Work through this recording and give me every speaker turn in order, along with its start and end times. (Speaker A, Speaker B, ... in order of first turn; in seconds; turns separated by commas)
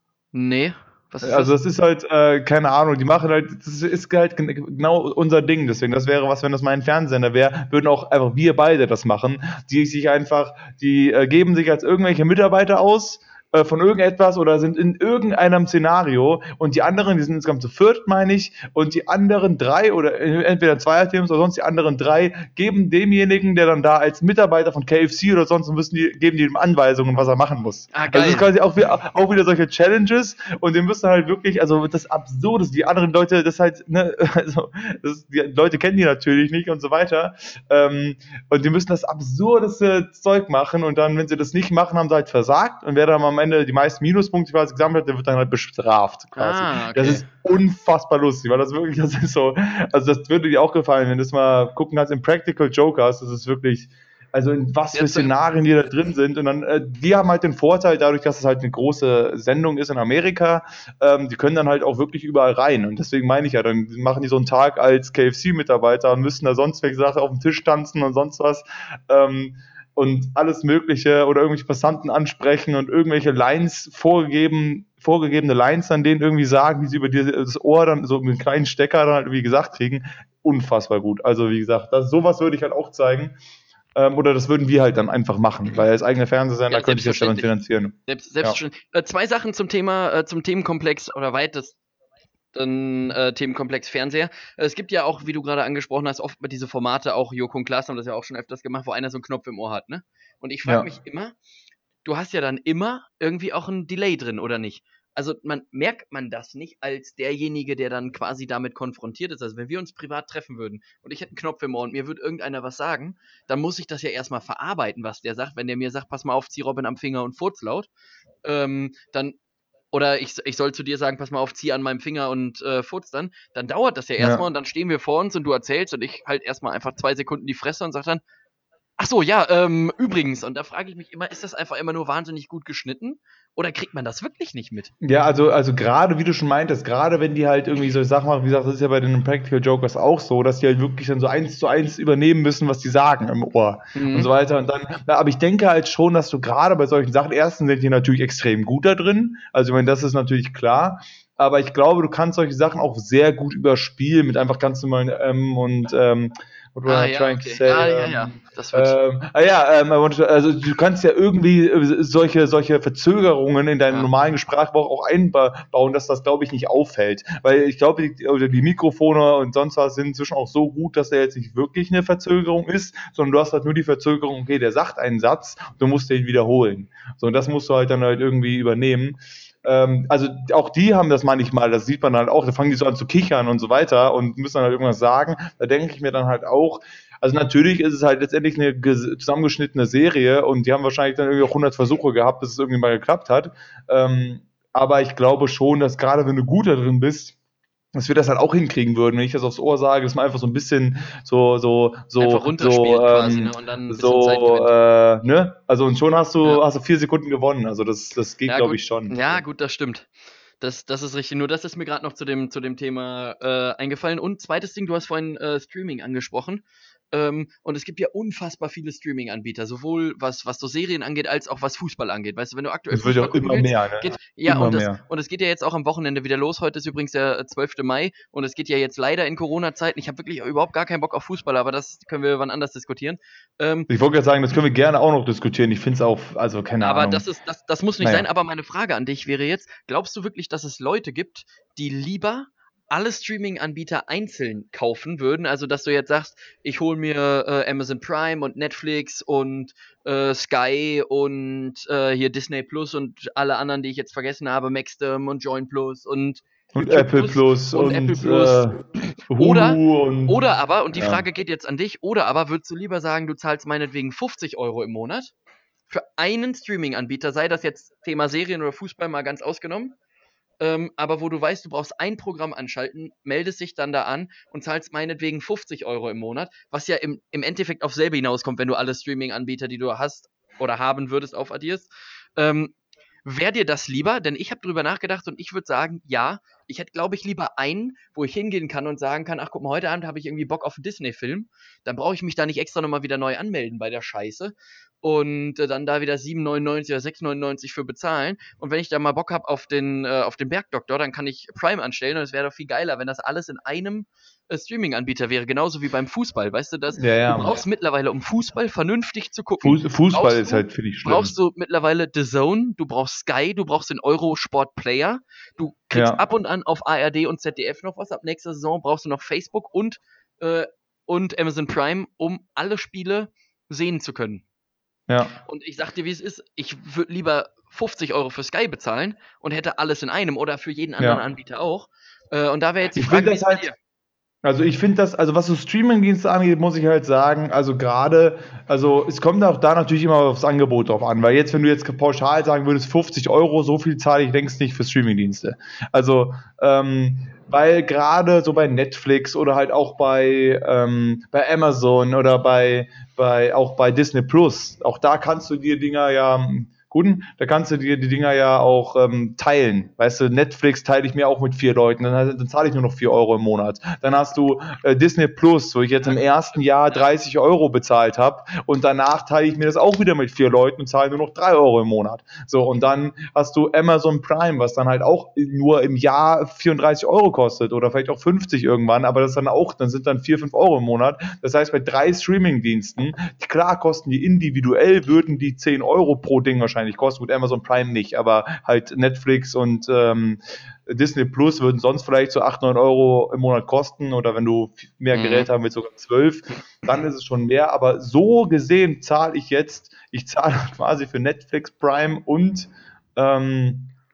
Speaker A: 0.3-1.5, Speaker B: 1.2-83.3, Speaker A: 27.9-28.5, Speaker A: 46.3-47.2, Speaker A: 54.9-55.3, Speaker B: 83.9-88.6, Speaker A: 86.7-87.5, Speaker A: 88.1-91.8, Speaker A: 92.5-101.3, Speaker A: 102.0-117.9, Speaker A: 118.4-119.3, Speaker A: 119.9-128.2, Speaker B: 124.2-124.4, Speaker A: 129.0-134.9, Speaker B: 135.0-197.4, Speaker A: 143.9-144.3, Speaker A: 156.8-159.0, Speaker B: 197.9-209.4, Speaker A: 202.2-204.8, Speaker A: 208.5-210.1, Speaker A: 210.6-233.9, Speaker B: 222.9-225.0, Speaker B: 233.9-237.2, Speaker A: 236.8-265.3, Speaker B: 256.7-260.4, Speaker B: 260.9-261.2, Speaker A: 265.9-269.9, Speaker A: 270.6-324.4, Speaker B: 306.9-307.6, Speaker B: 309.6-311.3, Speaker B: 315.9-316.2, Speaker B: 325.1-325.4, Speaker A: 325.4-333.8, Speaker B: 332.9-333.7, Speaker B: 334.4-403.9, Speaker A: 395.1-395.5